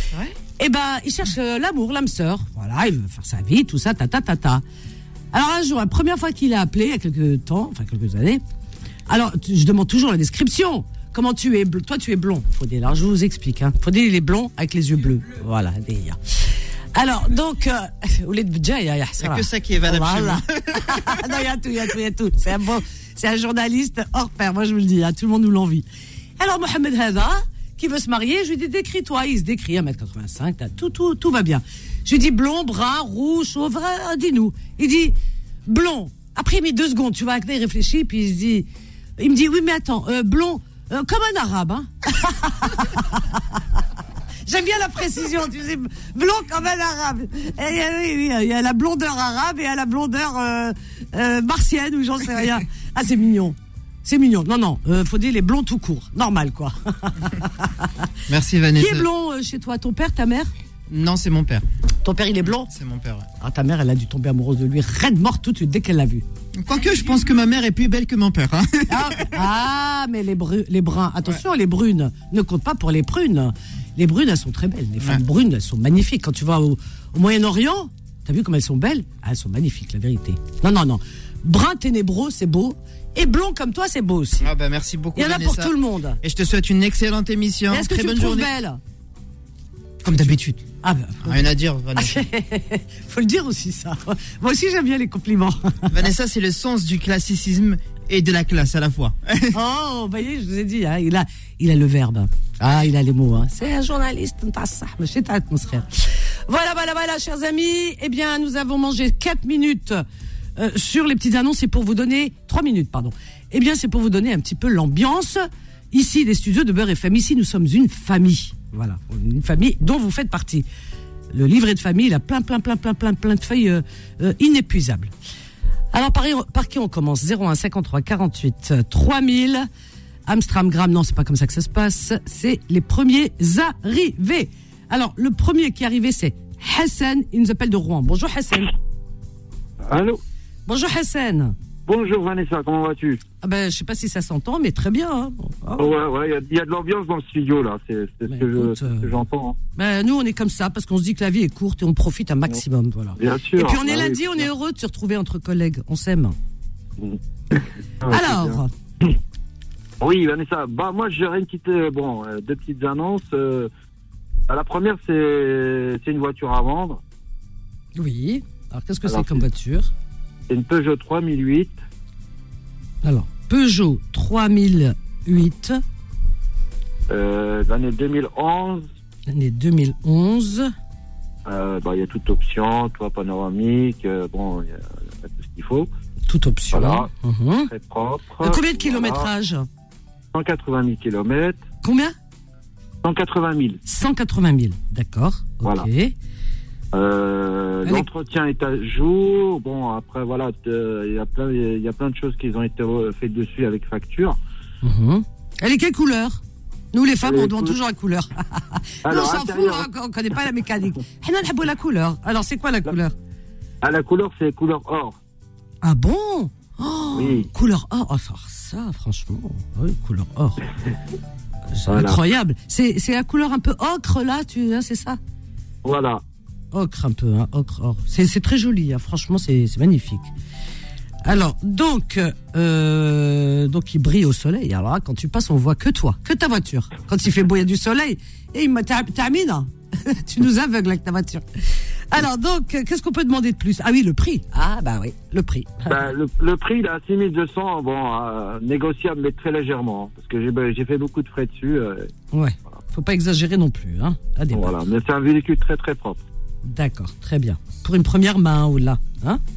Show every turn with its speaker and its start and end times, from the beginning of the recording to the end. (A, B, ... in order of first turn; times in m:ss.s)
0:00.6-0:04.6 A
0:05.3-0:08.4 A
0:09.1-0:16.2 A
0:16.9-0:25.8 A
0:19.2-0:21.3 B
0:26.4-0:35.1 A
0:35.6-0:43.8 A
0:44.4-0:57.9 A
0:58.3-0:59.1 B
0:58.7-1:00.5 A
1:00.9-1:01.6 B
1:02.0-1:02.7 A
1:02.6-1:03.3 B
1:03.4-1:06.2 A
1:06.5-1:09.5 B
1:08.9-1:24.5 A
1:24.4-1:28.5 B
1:25.2-1:26.2 A
1:27.7-1:28.8 A
1:30.0-1:30.6 B
1:30.1-1:36.0 A
1:31.2-1:32.2 B
1:35.9-1:39.6 B
1:39.5-1:50.0 A
1:50.6-2:00.7 A
2:01.3-2:05.1 A
2:05.9-2:09.7 A
2:10.2-2:18.7 A
2:19.8-2:20.2 C
2:20.6-2:21.5 A
2:21.9-2:23.2 C
2:23.4-2:25.9 A
2:25.8-2:29.6 C
2:28.3-2:29.1 A
2:29.8-2:36.4 A
2:33.2-2:34.5 C
2:37.0-2:39.1 C
2:38.0-2:38.7 A
2:40.0-2:43.7 C
2:44.5-2:47.0 C
2:48.0-2:49.9 A
2:49.0-2:49.4 C
2:50.5-2:51.8 C
2:53.0-2:55.8 A
2:57.1-2:58.8 C
2:59.3-3:00.7 A
3:01.4-3:05.9 C
3:06.3-3:07.7 A
3:06.7-3:07.1 C
3:07.7-3:09.3 C
3:08.4-3:09.7 A
3:10.3-3:11.6 C
3:11.8-3:12.1 A
3:13.0-3:13.8 C
3:13.8-3:16.1 A
3:16.9-3:24.4 C
3:17.8-3:18.1 A
3:24.8-3:26.4 A
3:26.9-3:33.1 A
3:27.2-3:27.8 C
3:29.0-3:29.9 C
3:33.8-3:35.2 C
3:35.8-3:40.6 A
3:37.1-3:37.5 C
3:41.7-3:45.2 A
3:41.9-3:42.2 C
3:45.8-3:46.2 C
3:46.7-3:50.3 A
3:51.2-4:06.1 A
4:05.9-4:12.1 C
4:12.3-4:14.8 A
4:14.5-4:16.2 C
4:16.6-4:19.4 A